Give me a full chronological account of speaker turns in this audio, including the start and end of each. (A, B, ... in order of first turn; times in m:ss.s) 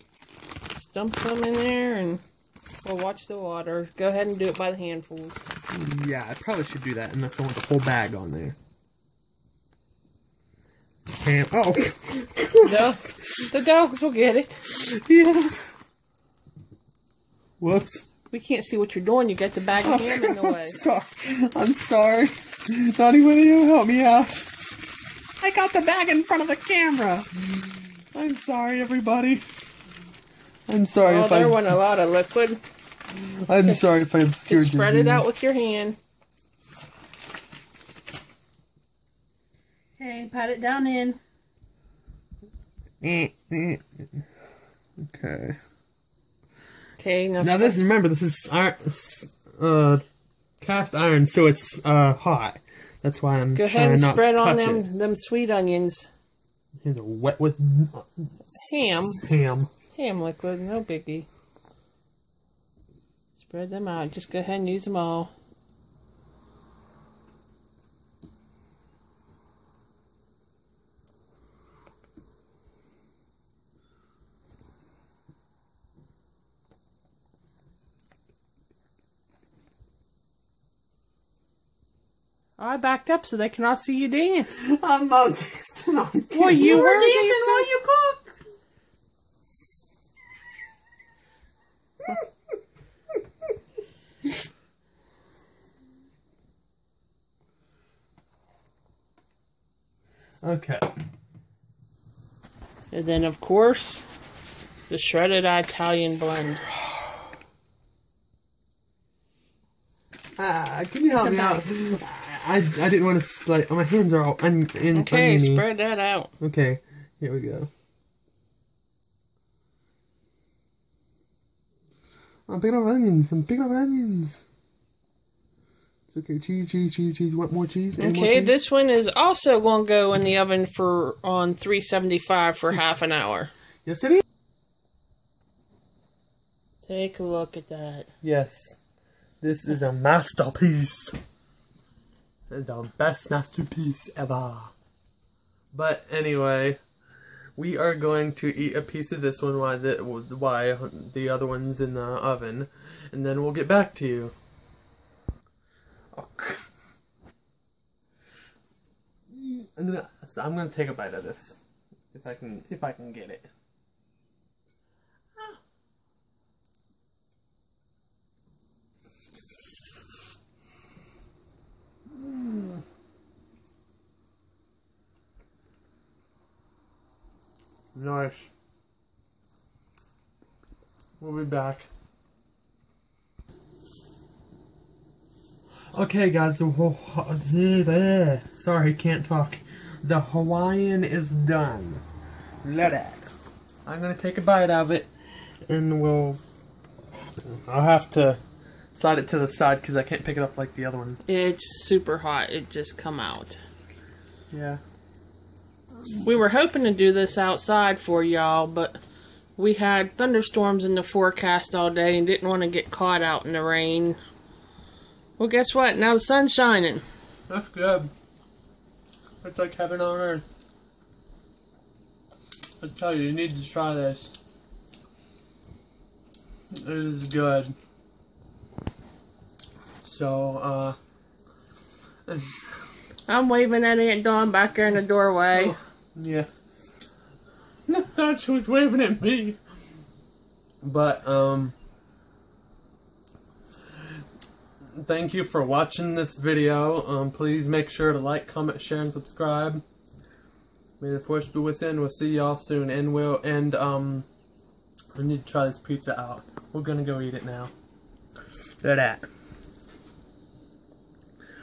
0:00.7-0:02.2 A
0:02.8-0:05.4 A
0:05.7-0:08.6 B
0:11.1-0:13.1 B
0:12.6-0:14.6 A
0:14.7-0:15.7 B
0:17.6-0:18.1 B
0:18.3-0:20.8 A
0:19.8-0:24.7 B
0:25.4-0:29.4 B
0:30.7-0:31.6 B
0:31.0-0:32.6 A
0:33.2-0:35.2 B
0:33.6-0:33.8 A
0:34.4-0:36.0 A
0:40.0-0:41.2 C
0:43.0-0:44.2 B
0:45.0-0:45.6 B
0:47.0-0:47.8 A
0:47.4-0:50.0 B
0:50.6-0:54.9 B
0:53.5-0:56.1 A
0:56.8-0:58.4 B
0:58.5-0:59.2 A
0:59.2-0:59.7 B
0:59.9-1:01.3 A
1:03.4-1:05.3 A
1:22.6-1:24.6 A
1:24.6-1:27.0 B
1:26.3-1:27.7 A
1:26.6-1:28.4 C
1:40.4-1:40.9 B
1:42.9-1:44.0 A
1:44.9-1:46.6 A
1:50.4-1:55.6 B
1:51.1-1:51.7 C
1:54.9-1:56.3 A
1:56.4-1:57.7 B
2:02.5-2:04.4 B
2:06.1-2:08.6 B
2:08.0-2:13.5 A
2:13.8-2:14.2 B
2:16.8-2:18.1 A
2:18.2-2:18.8 B
2:19.4-2:21.2 B
2:22.5-2:24.7 B
2:25.7-2:26.8 B
2:27.6-2:34.3 B
2:36.1-2:36.7 B
2:39.3-2:41.6 B
2:42.1-2:43.5 B
2:52.1-2:52.8 B
2:57.9-2:58.5 B
3:01.2-3:01.9 B
3:05.9-3:12.0 B
3:12.6-3:13.3 B
3:13.8-3:15.1 B
3:15.7-3:16.4 B
3:17.4-3:18.4 B
3:18.9-3:21.2 B
3:21.2-3:23.6 A
3:24.5-3:24.8 B
3:26.2-3:29.0 A
3:29.6-3:34.2 A
3:35.4-3:37.0 A
3:37.5-3:38.1 B
3:39.4-3:40.4 B
3:42.8-3:44.4 B
3:46.7-3:47.7 B
3:50.0-3:51.0 B
3:52.3-3:52.6 B
3:53.3-3:55.7 A
3:55.5-3:56.5 B
3:57.9-3:59.6 B
4:00.8-4:01.7 B
4:04.9-4:09.8 B
4:11.0-4:14.2 B
4:15.1-4:17.7 B
4:18.8-4:19.2 B